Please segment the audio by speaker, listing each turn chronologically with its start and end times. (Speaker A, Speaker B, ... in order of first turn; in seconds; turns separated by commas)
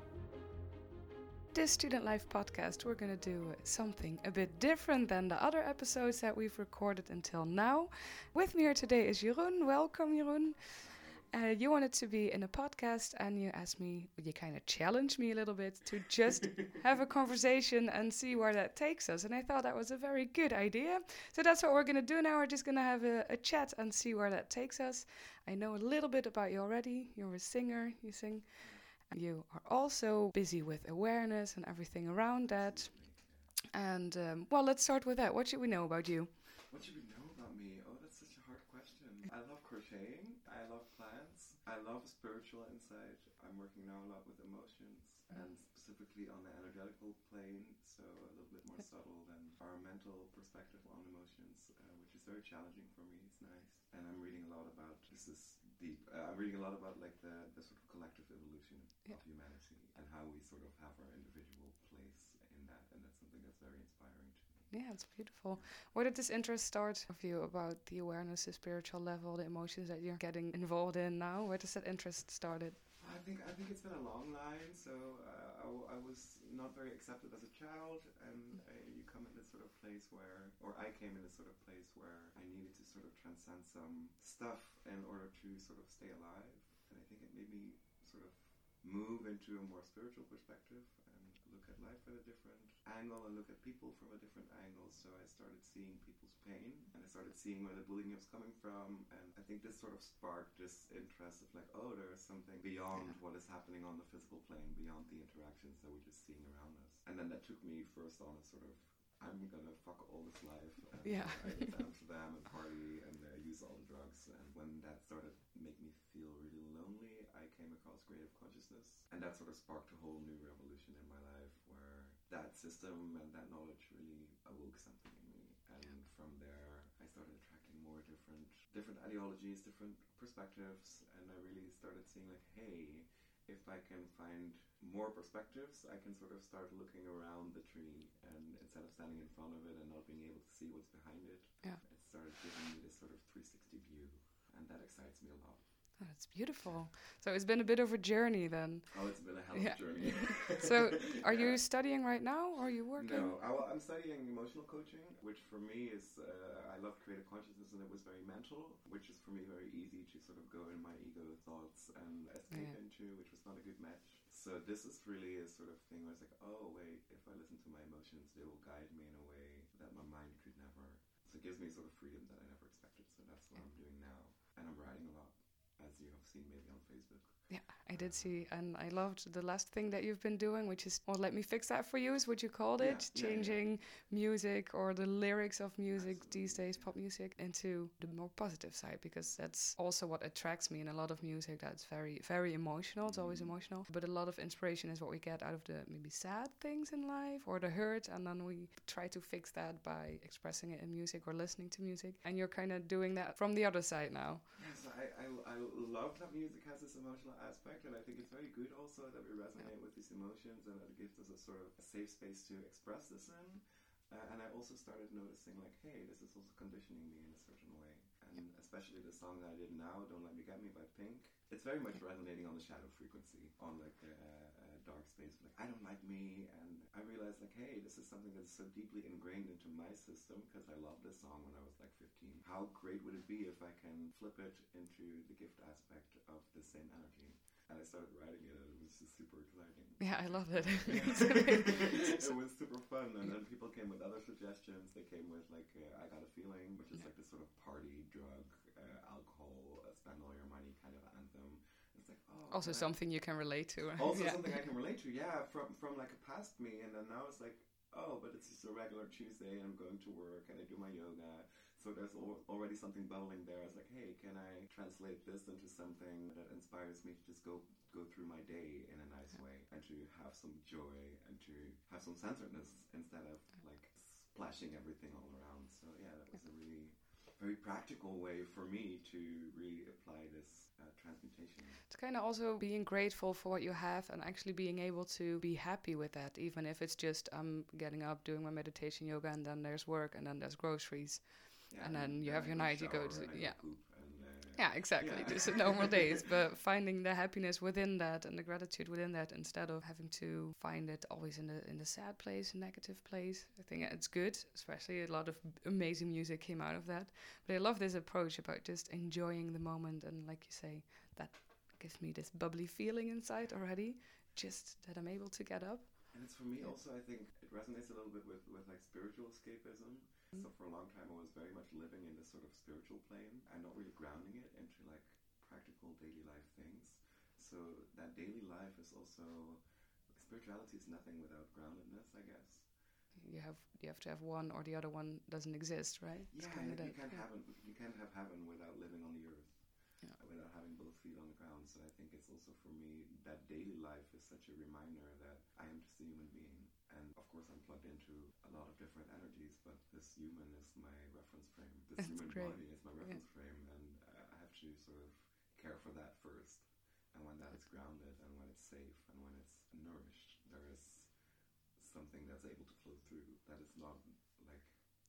Speaker A: 1.5-33.2, Speaker B: 10.8-11.3, Speaker B: 28.6-28.9, Speaker B: 32.4-33.5, Speaker A: 33.7-36.3, Speaker B: 36.7-65.7, Speaker A: 64.7-72.8, Speaker B: 73.0-146.0, Speaker A: 111.0-111.8, Speaker A: 146.0-153.4, Speaker B: 148.9-151.7, Speaker B: 152.9-178.5, Speaker A: 162.5-162.8, Speaker A: 177.5-204.5, Speaker B: 182.8-183.7, Speaker B: 185.9-187.0, Speaker B: 193.0-193.6, Speaker B: 204.5-253.2, Speaker A: 240.0-242.3, Speaker A: 252.5-254.6, Speaker B: 253.8-281.9, Speaker A: 281.9-316.6, Speaker B: 291.7-296.2, Speaker B: 316.1-332.7, Speaker A: 333.1-337.2, Speaker B: 336.3-361.2, Speaker A: 352.0-353.1, Speaker B: 361.8-364.8